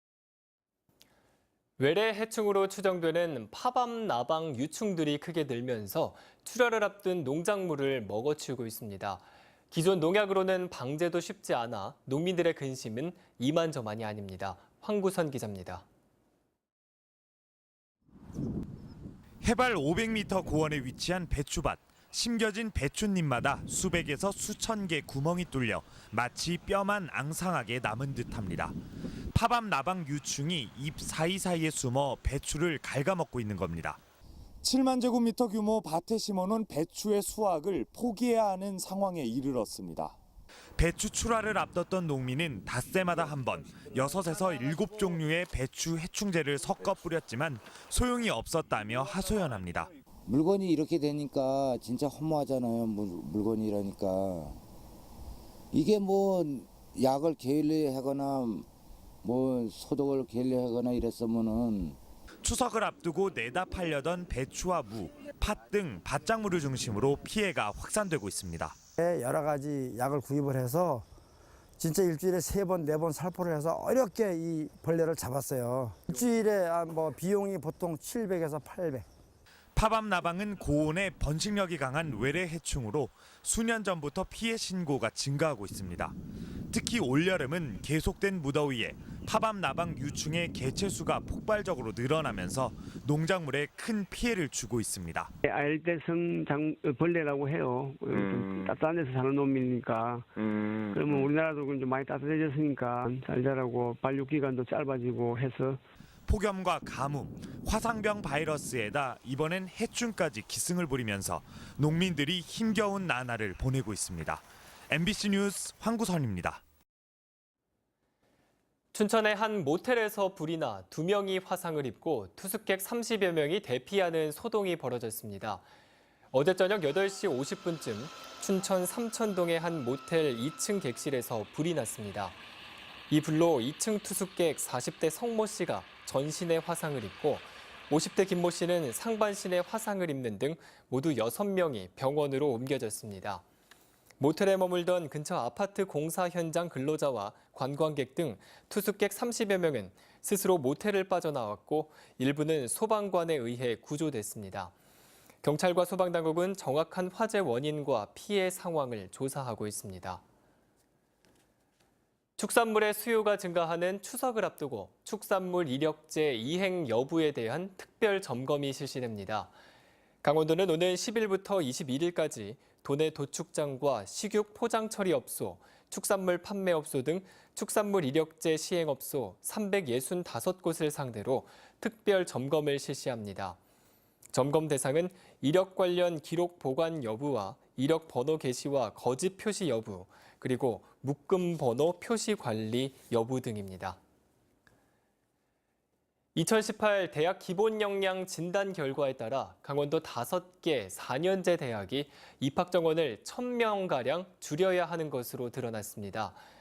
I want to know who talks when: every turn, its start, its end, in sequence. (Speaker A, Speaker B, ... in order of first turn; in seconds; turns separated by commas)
Speaker A: 1.8-15.8, Speaker B: 19.4-28.8, Speaker B: 29.3-34.0, Speaker B: 34.6-40.2, Speaker B: 40.8-49.9, Speaker C: 50.3-54.6, Speaker C: 55.7-58.7, Speaker C: 59.2-62.0, Speaker B: 62.4-68.8, Speaker D: 69.0-71.0, Speaker D: 71.8-79.0, Speaker B: 79.8-86.1, Speaker B: 86.7-95.3, Speaker E: 95.5-105.8, Speaker B: 106.3-116.6, Speaker A: 118.9-125.7, Speaker A: 126.3-132.4, Speaker A: 133.1-143.4, Speaker A: 144.2-154.7, Speaker A: 155.4-160.2, Speaker A: 162.4-169.5, Speaker A: 170.2-183.6, Speaker A: 184.3-194.0, Speaker A: 196.3-206.4